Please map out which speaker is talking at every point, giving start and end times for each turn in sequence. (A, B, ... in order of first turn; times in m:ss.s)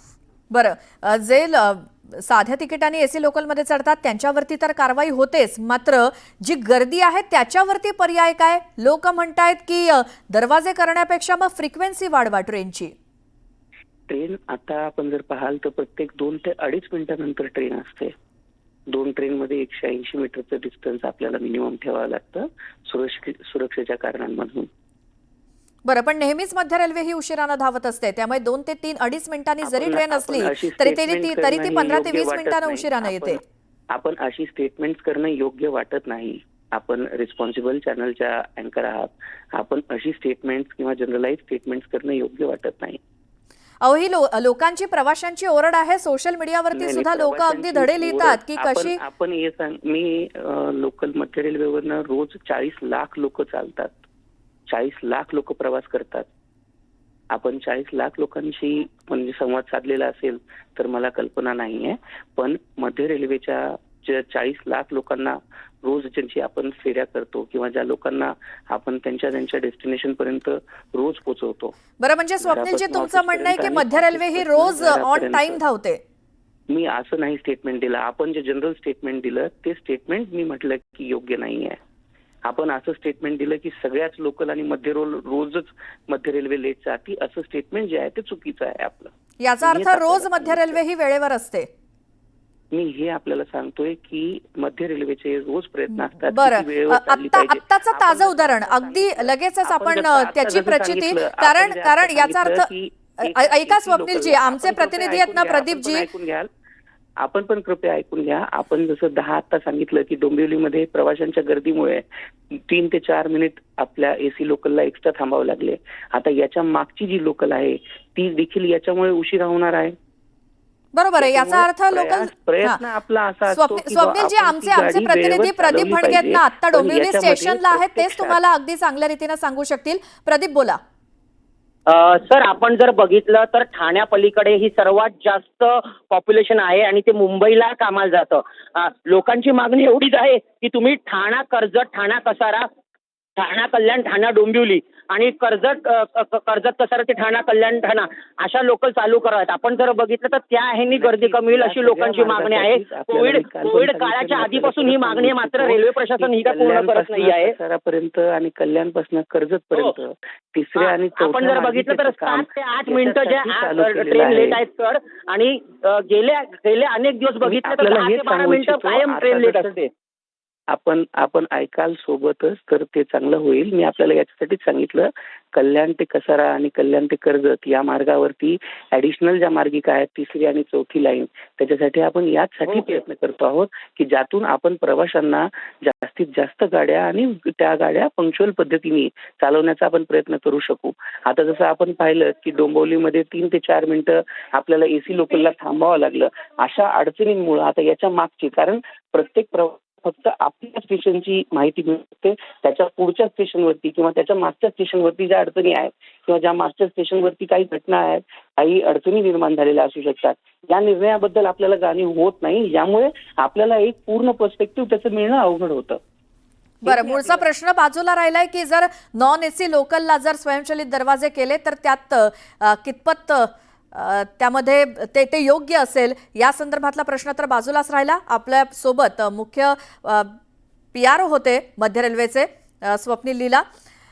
0:00.5-0:12.9 A
0:14.1-0:18.1 B
0:18.9-0:24.7 B
0:25.8-0:33.4 A
0:29.6-0:43.0 B
0:43.8-0:49.0 A
0:46.7-0:54.0 B
0:54.7-0:56.3 B
0:57.3-1:11.7 B
1:12.0-1:16.0 A
1:12.4-1:15.6 B
1:16.7-1:21.8 B
1:22.4-1:30.8 B
1:29.4-1:31.7 A
1:32.7-1:46.5 B
1:36.2-1:42.7 A
1:43.2-1:46.1 A
1:47.2-2:00.0 B
2:00.9-2:02.8 A
2:01.2-2:08.4 B
2:03.5-2:10.8 A
2:11.9-2:22.7 C
2:23.4-2:37.5 C
2:30.9-2:44.6 B
2:40.8-2:49.9 C
2:47.4-2:49.8 B
2:50.7-3:36.0 B
3:02.7-3:03.0 C
3:36.8-3:50.4 A
3:36.8-3:37.4 B
3:50.9-3:53.6 A